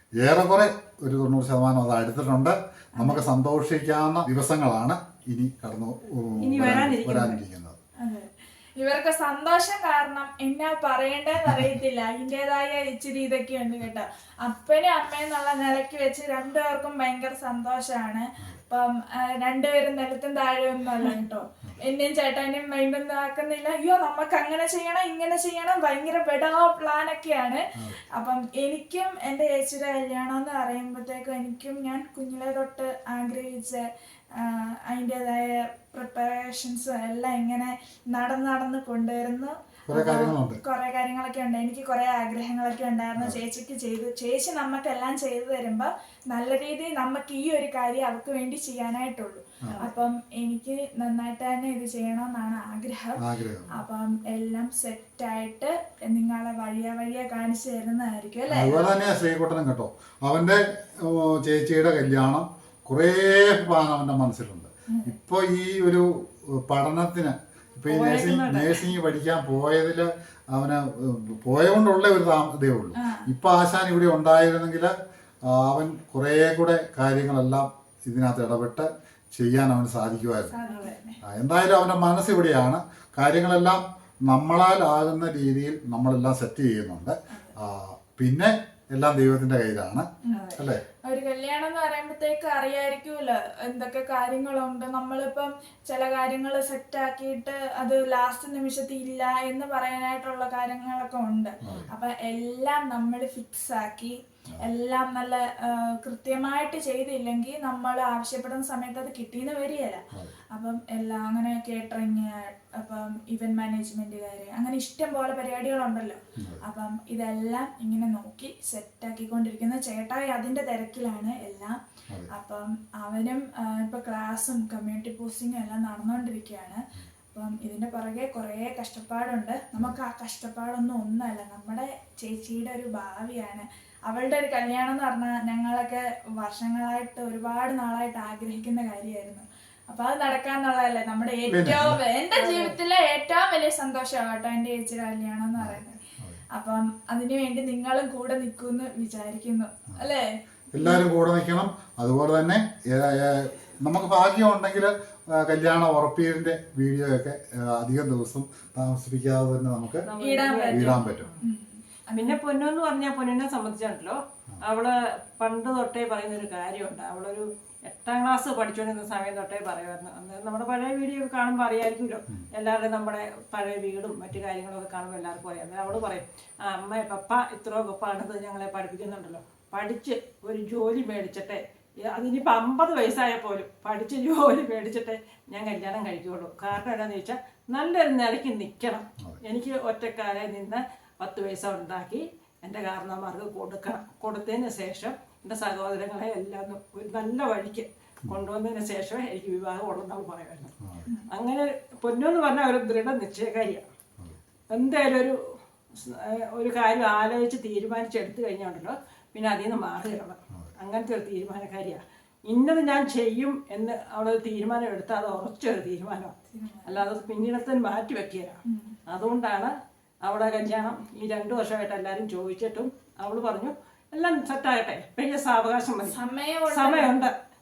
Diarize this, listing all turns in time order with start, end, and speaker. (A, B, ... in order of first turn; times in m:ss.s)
0:00.2-0:07.8 A
0:03.0-0:03.2 B
0:06.4-0:07.4 C
0:08.0-0:58.9 B
0:11.4-0:11.8 A
0:39.9-0:40.6 A
0:53.2-0:53.7 A
0:58.5-1:14.9 A
1:07.9-1:08.8 C
1:13.0-1:13.2 B
1:15.5-1:20.5 A
1:20.5-1:21.2 B
1:20.7-1:20.9 C
1:21.2-1:30.8 A
1:30.3-1:30.6 C
1:31.0-2:01.8 B
1:41.6-1:41.9 A
2:02.3-2:26.0 B
2:21.5-2:22.0 A
2:22.4-2:22.8 C
2:25.6-2:26.4 A
2:26.5-2:31.0 B
2:30.7-2:40.1 A
2:40.1-2:41.4 C
2:40.2-2:42.3 B
2:40.7-2:41.3 A
2:42.1-3:20.7 C
3:20.8-3:21.1 A
3:21.3-3:23.9 C
3:24.7-3:36.3 C
3:36.5-3:37.0 B
3:36.8-3:46.2 C
3:38.7-3:38.9 B
3:46.1-3:47.1 B
3:46.7-3:47.3 C